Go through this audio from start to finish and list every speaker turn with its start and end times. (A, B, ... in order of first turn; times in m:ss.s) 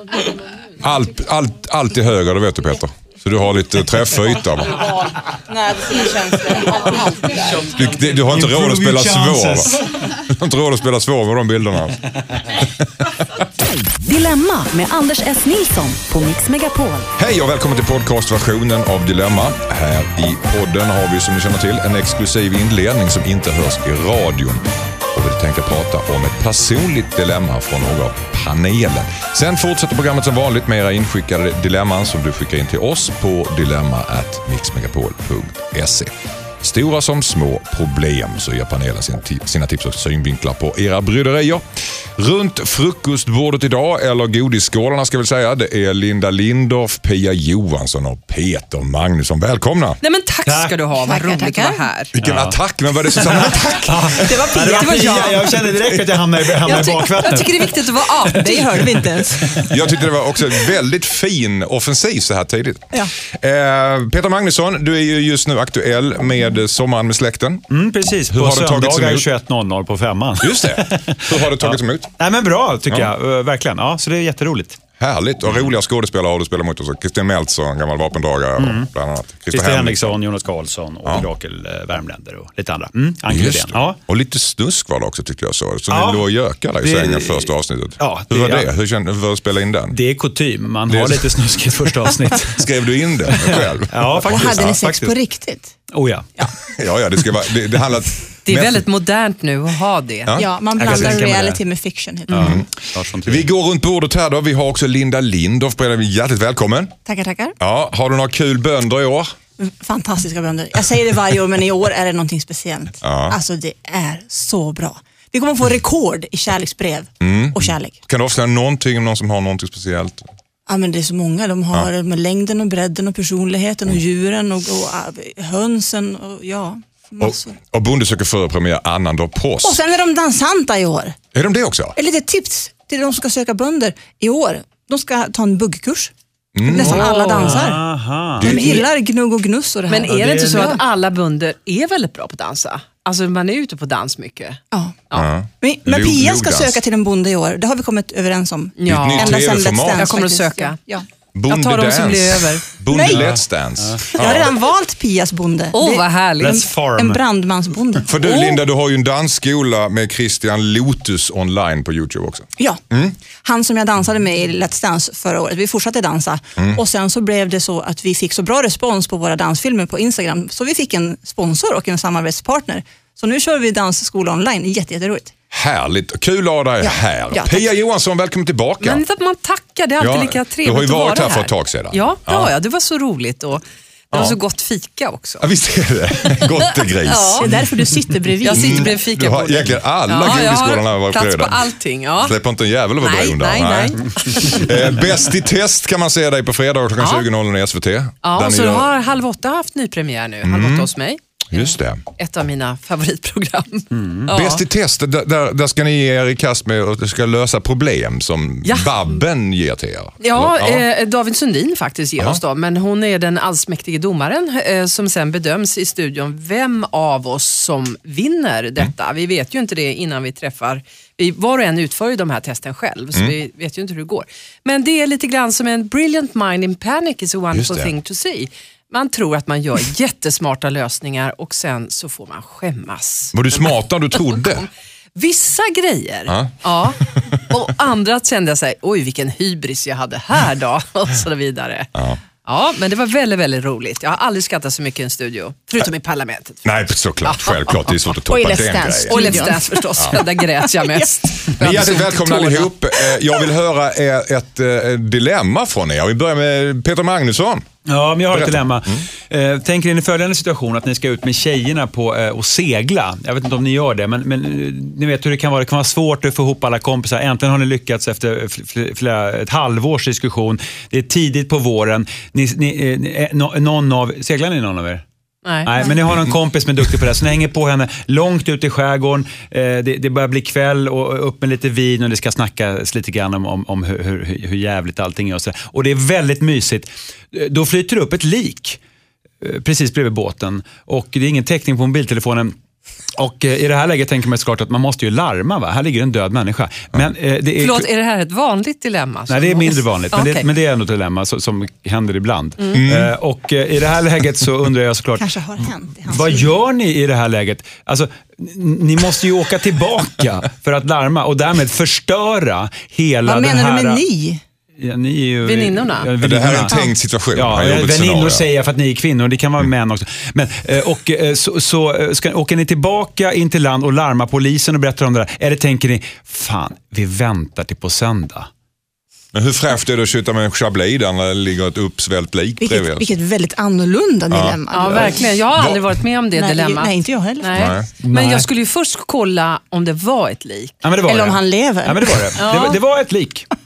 0:00.8-0:04.9 A
0:04.7-0:07.7 B
0:07.5-0:10.1 C
0:07.5-0:12.0 A
0:12.6-0:13.5 A
0:14.0-0:17.1 D
0:17.2-0:50.0 A
0:50.0-0:52.1 E
0:50.4-0:50.8 C
0:51.0-0:51.8 B
0:52.1-0:54.5 A
0:52.2-0:52.6 C
0:53.1-0:59.9 C
0:54.1-0:55.7 B
0:54.7-0:55.4 E
0:55.8-0:56.2 A
0:56.6-0:57.7 B
0:56.7-0:58.9 E
0:58.2-0:59.6 B
0:59.6-1:07.6 A
1:07.7-1:14.8 C
1:08.3-1:09.2 A
1:10.4-1:12.1 A
1:15.0-1:20.2 A
1:18.6-1:18.9 C
1:19.5-1:24.0 C
1:23.2-1:30.0 A
1:25.9-1:26.2 C
1:26.8-1:28.7 C
1:29.9-1:32.7 C
1:30.9-1:34.8 A
1:33.2-1:35.1 C
1:34.3-1:35.7 B
1:35.9-1:36.3 C
1:36.6-1:38.9 A
1:38.4-1:40.4 E
1:40.2-1:41.1 A
1:40.4-1:42.6 B
1:40.8-1:41.6 C
1:42.3-1:43.5 C
1:42.3-1:42.7 A
1:43.2-1:47.0 A
1:47.0-1:47.6 B
1:47.6-1:49.3 A
1:49.6-1:58.0 B
1:53.0-1:53.4 A
1:57.2-2:00.3 A
2:00.7-2:07.6 B
2:07.2-2:09.8 A
2:09.6-2:11.2 B
2:11.3-2:12.0 A
2:12.0-2:17.8 B
2:16.6-2:17.2 A
2:16.7-2:17.7 E
2:16.8-2:18.6 C
2:18.4-2:18.9 A
2:18.4-2:20.8 B
2:18.5-2:18.8 E
2:19.9-2:24.6 E
2:20.1-2:20.7 C
2:24.7-2:25.1 B
2:25.1-2:26.8 A
2:25.6-2:31.0 B
2:28.8-2:29.4 E
2:28.9-2:30.2 A
2:29.9-2:30.8 E
2:31.3-2:34.5 A
2:31.5-2:32.6 E
2:32.9-2:33.2 B
2:33.0-2:34.1 C
2:34.1-2:38.4 B
2:35.7-2:36.6 E
2:36.4-2:37.2 C
2:38.1-2:43.2 A
2:38.2-2:38.6 E
2:43.3-2:55.3 B
2:55.5-2:59.0 A
2:56.8-2:57.6 B
2:58.8-3:05.5 E
3:00.0-3:02.5 A
3:04.1-3:04.4 A
3:05.4-3:07.7 A
3:06.3-3:07.5 E
3:07.4-3:08.9 B
3:08.4-3:12.4 E
3:08.5-3:18.9 A
3:13.0-3:14.7 E
3:14.3-3:14.6 C
3:17.0-3:17.3 E
3:18.2-3:24.6 E
3:20.4-3:20.9 A
3:21.5-3:22.0 A
3:23.9-3:24.3 C
3:24.3-3:30.9 A
3:28.6-3:28.9 E
3:30.2-4:01.9 E
3:47.5-3:47.9 A
3:53.3-3:54.7 A
3:56.3-3:57.4 A
4:02.4-4:06.7 E
4:06.6-4:10.2 A
4:07.2-4:08.1 E
4:08.3-4:11.5 B
4:09.1-4:12.7 E
4:11.5-4:17.6 A
4:17.8-4:35.0 C
4:18.3-4:19.1 A
4:35.4-4:35.7 E
4:35.6-4:48.8 C
4:49.4-4:52.6 C
4:53.1-4:57.9 C
4:57.6-5:00.4 E
4:59.3-5:14.0 C
5:02.7-5:03.1 A
5:05.2-5:06.5 B
5:13.2-5:14.4 B
5:14.8-5:16.7 C
5:15.4-5:16.1 E
5:16.2-5:18.5 A
5:17.3-5:28.5 C
5:29.3-5:33.1 A
5:32.6-5:35.3 B
5:34.3-5:34.6 A
5:34.7-5:40.7 E
5:35.5-5:36.0 A
5:36.3-5:37.8 B
5:37.5-5:37.9 A
5:38.0-5:38.5 C
5:40.8-5:43.5 C
5:41.1-5:42.4 B
5:42.4-5:42.8 E